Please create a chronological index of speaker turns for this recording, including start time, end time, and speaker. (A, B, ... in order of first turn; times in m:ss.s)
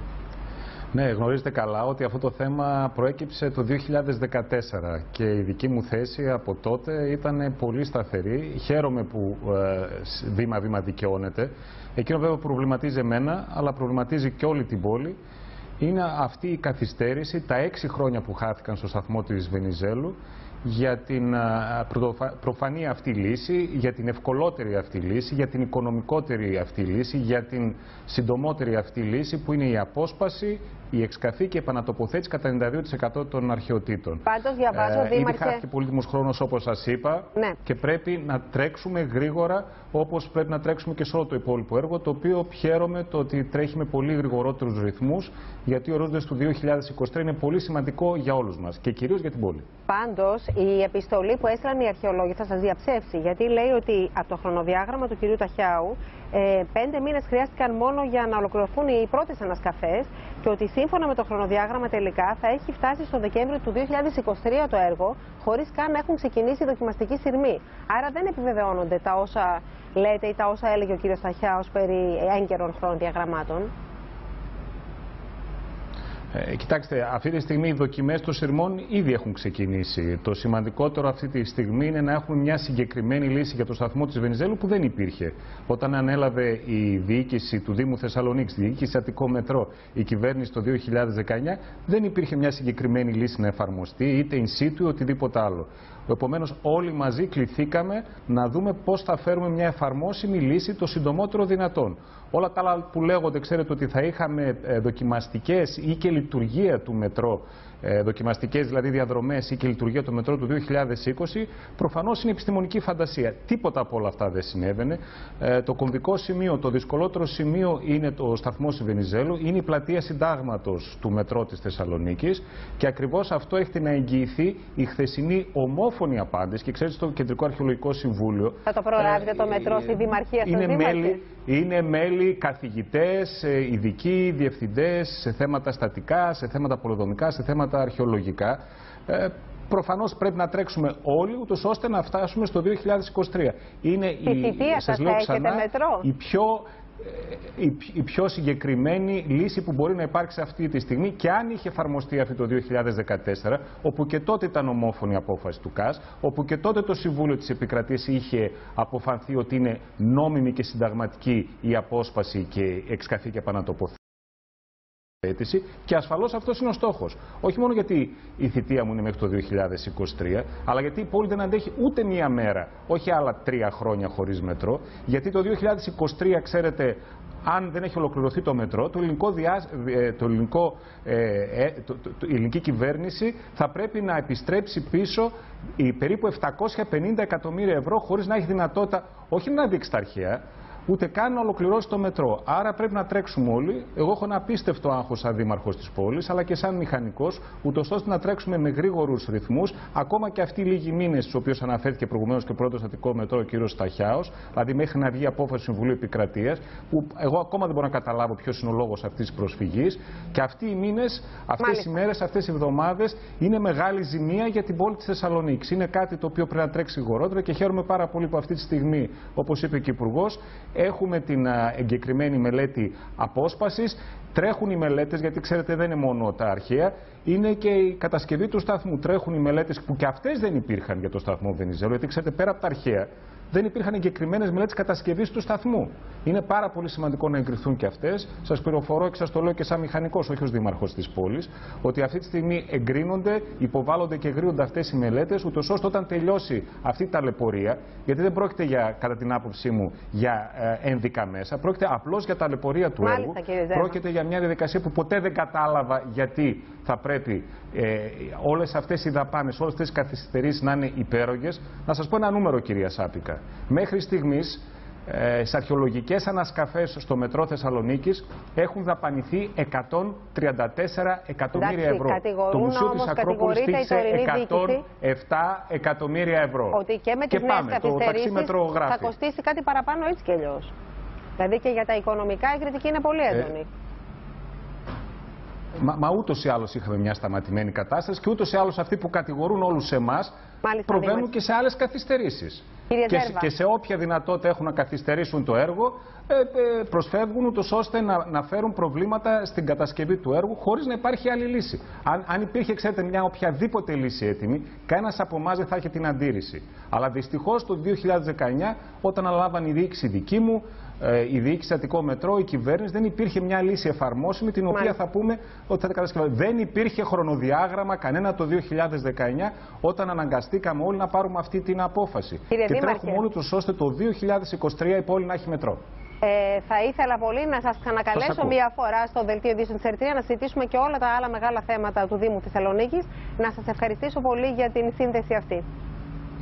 0:00.9-0:15.2 A
0:15.8-0:49.7 A
0:34.2-0:35.6 B
0:49.9-1:13.7 B
1:16.3-2:09.8 A
2:08.6-2:11.2 B
2:10.4-2:44.0 A
2:24.2-2:26.1 B
2:45.2-4:39.1 A
3:31.6-3:31.9 B
4:13.0-4:14.0 B
4:31.6-4:34.8 B
4:36.7-4:40.7 B
4:41.4-4:43.7 B
4:45.8-4:50.4 A
4:50.6-4:51.3 B
4:50.9-5:25.8 A
4:52.9-4:53.4 B
5:22.5-5:23.2 B
5:26.2-5:35.6 B
5:28.1-5:28.5 A